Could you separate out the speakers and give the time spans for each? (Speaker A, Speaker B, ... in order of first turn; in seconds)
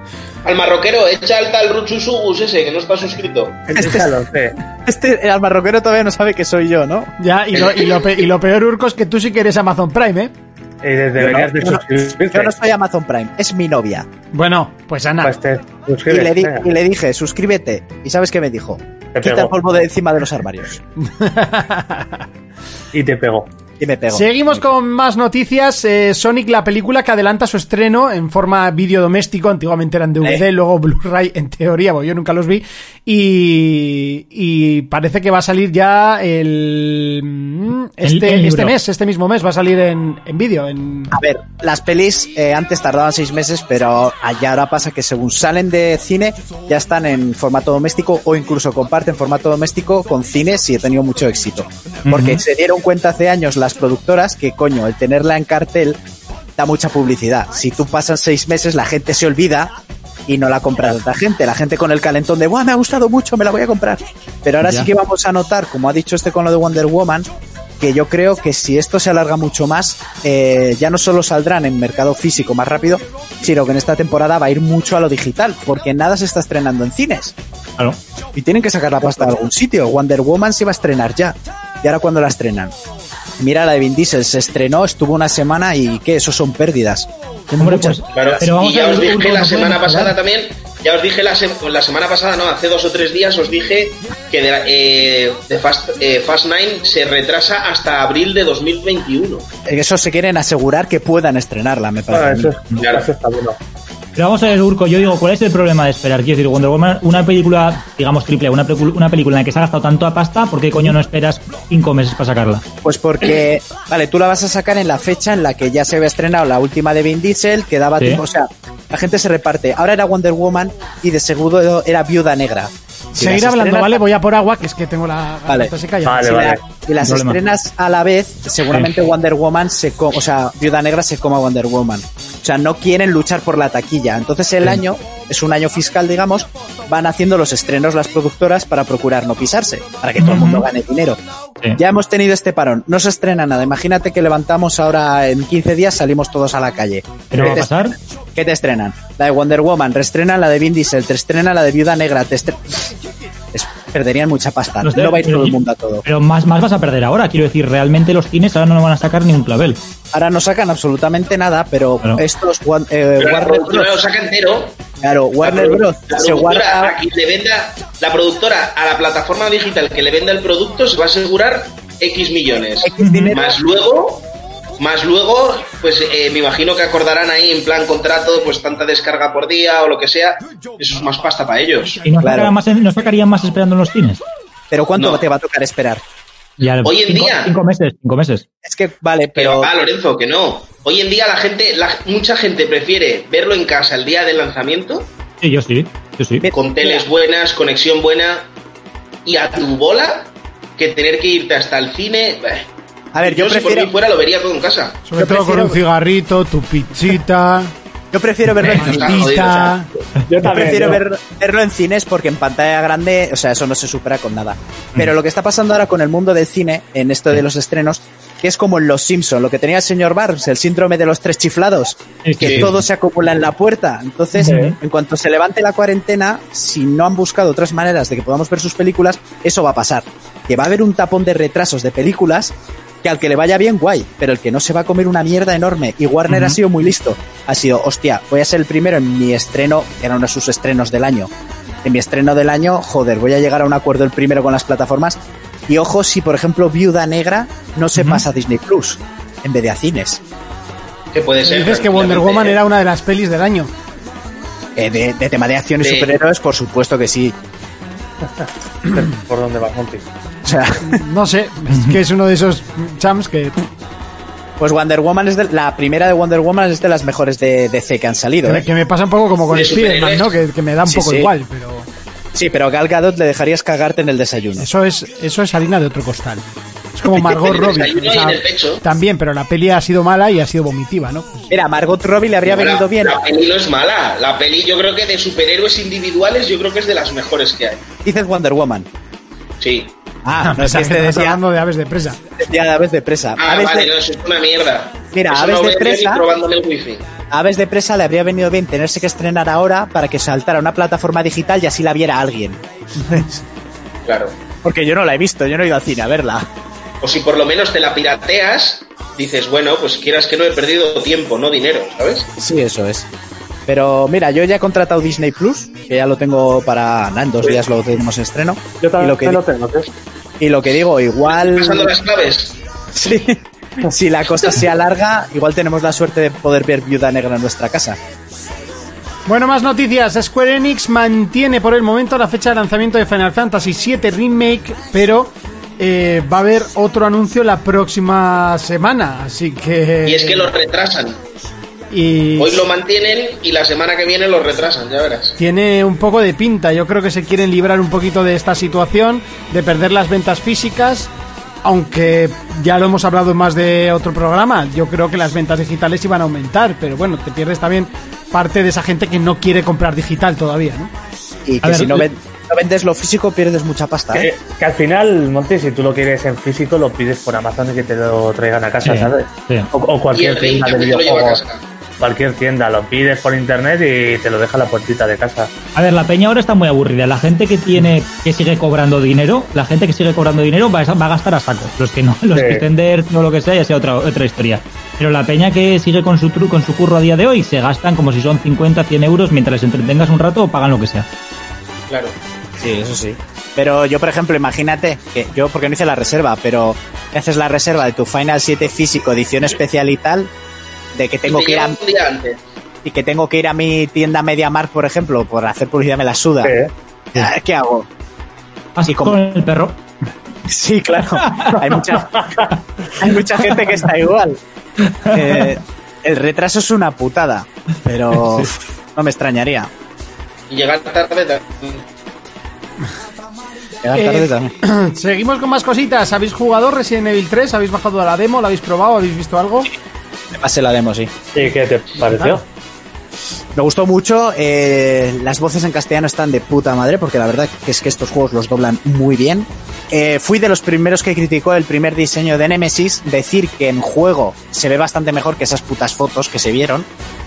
Speaker A: 0.5-3.6, 88.1-99.5, 102.8-103.1, 163.2-164.8, 165.4-174.3, 174.8-182.0, 185.0-185.2, 186.8-187.6, 189.4-195.1, 196.5-198.5, 199.2-202.7, 203.2-205.0, 208.7-209.8, 222.4-222.7, 251.1-252.6, 255.8-256.2, 269.5-270.4, 277.2-278.8, 282.4-287.8, 289.6-289.9, 293.4-297.1, 304.1-304.3, 307.0-312.3, 321.2-322.6, 340.0-341.2, 342.4-345.4, 370.1-371.6, 391.9-392.2, 401.2-402.4, 420.5-421.8
Speaker B: 3.7-4.6, 10.8-12.5, 15.2-16.7, 19.1-19.6, 22.9-23.5, 102.1-103.6, 126.0-126.7, 210.1-211.0, 224.4-224.7, 258.9-260.1, 318.8-319.9, 364.1-371.4, 372.0-375.5, 382.3-382.6, 406.4-406.7, 412.2-412.5, 431.4-432.4
Speaker C: 3.7-4.1, 4.8-7.1, 11.2-14.1, 16.1-20.8, 23.8-24.6, 41.1-56.0, 56.6-59.7, 60.3-67.3, 67.8-77.3, 78.3-82.7, 83.4-88.0, 99.7-102.5, 112.8-124.0, 125.5-141.2, 141.8-152.9, 153.5-156.0, 160.1-164.0, 165.0-167.0, 172.8-173.6, 182.2-182.5, 184.7-186.0, 188.6-189.7, 196.4-197.1, 203.1-203.9, 205.2-205.8, 208.1-209.3, 210.4-241.3, 241.8-250.2, 254.8-257.4, 260.4-261.0, 264.6-268.7, 270.9-271.3, 272.3-274.7, 281.5-283.2, 288.0-288.9, 290.2-291.4, 292.4-293.9, 295.1-296.2, 297.3-303.3, 304.6-306.5, 312.4-313.1, 313.7-319.4, 320.4-321.9, 322.9-328.0, 361.4-364.3, 392.6-400.3, 400.9-401.8, 402.8-406.6, 407.1-407.9, 408.9-409.2, 410.5-412.4, 413.0-414.4, 415.1-419.7, 423.8-424.5, 430.3-431.1, 433.6-446.9
Speaker D: 7.2-10.3, 14.3-15.3, 21.0-22.2, 24.1-41.1, 123.2-126.5, 205.1-207.7, 208.8-209.9, 251.4-253.7, 260.8-263.6, 268.4-271.9, 274.6-276.4, 276.9-281.5, 290.4-292.2, 329.3-340.5, 341.9-342.6, 345.4-351.1, 351.6-360.9, 424.0-429.7, 432.1-432.4
Speaker E: 38.0-38.8, 52.1-52.4, 64.6-64.9, 87.6-90.2, 104.2-112.7, 127.0-127.4, 140.2-140.7, 147.3-148.0, 154.8-159.8, 173.0-173.3, 182.0-184.2, 186.6-188.4, 195.4-196.5, 222.2-222.8, 224.3-224.8, 236.3-236.6, 248.0-248.2, 261.7-262.0, 361.6-362.1, 368.8-369.7, 375.8-391.1, 408.8-409.8, 411.2-411.7, 414.8-415.5, 418.2-418.5